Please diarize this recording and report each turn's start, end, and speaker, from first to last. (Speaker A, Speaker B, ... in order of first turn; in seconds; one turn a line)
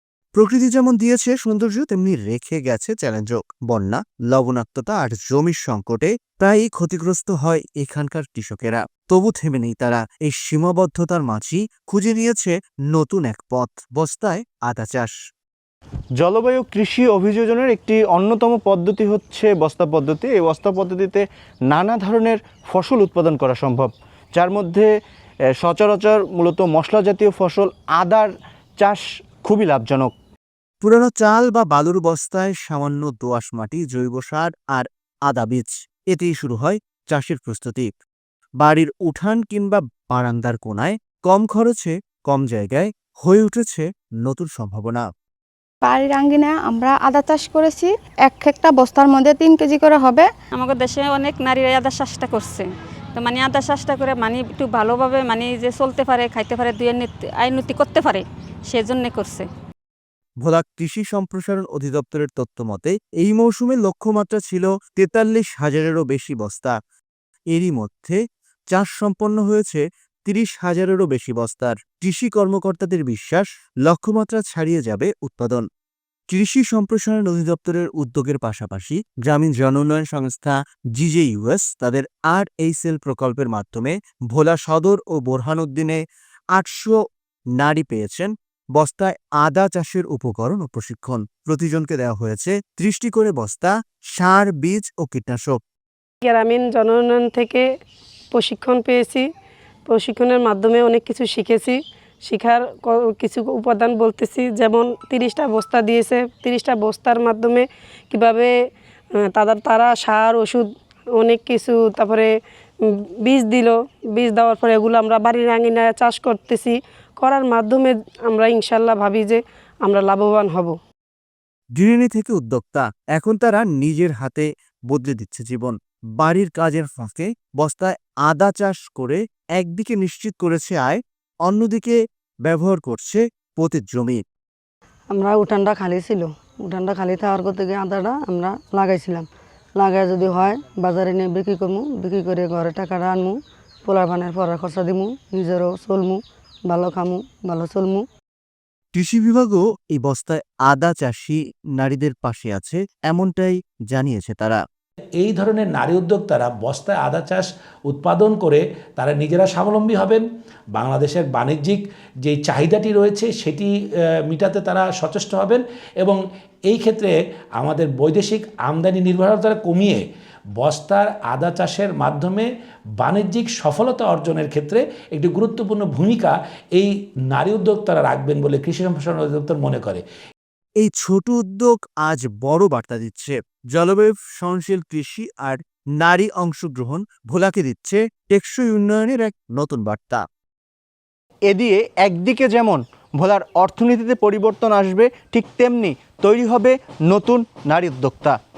Speaker A: 0.3-15.1
Speaker B: 16.2-21.2
Speaker B: 21.7-24.9
Speaker B: 25.6-28.3
Speaker B: 28.8-30.1
Speaker A: 30.8-37.9
Speaker A: 38.6-45.1
Speaker C: 45.9-50.3
Speaker D: 50.5-59.5
Speaker A: 60.4-66.8
Speaker A: 67.5-68.2
Speaker A: 68.7-75.7
Speaker A: 76.3-86.0
Speaker A: 86.5-87.0
Speaker A: 87.6-95.6
Speaker E: 96.2-97.6
Speaker E: 98.3-99.3
Speaker E: 99.9-108.5
Speaker E: 109.2-112.3
Speaker E: 112.8-120.8
Speaker A: 121.8-134.2
Speaker F: 135.1-139.3
Speaker F: 139.8-148.1
Speaker A: 148.9-154.6
Speaker G: 155.2-160.2
Speaker G: 160.7-163.7
Speaker G: 164.3-170.0
Speaker G: 170.6-172.5
Speaker G: 173.0-180.0
Speaker A: 180.8-190.2
Speaker B: 191.5-198.3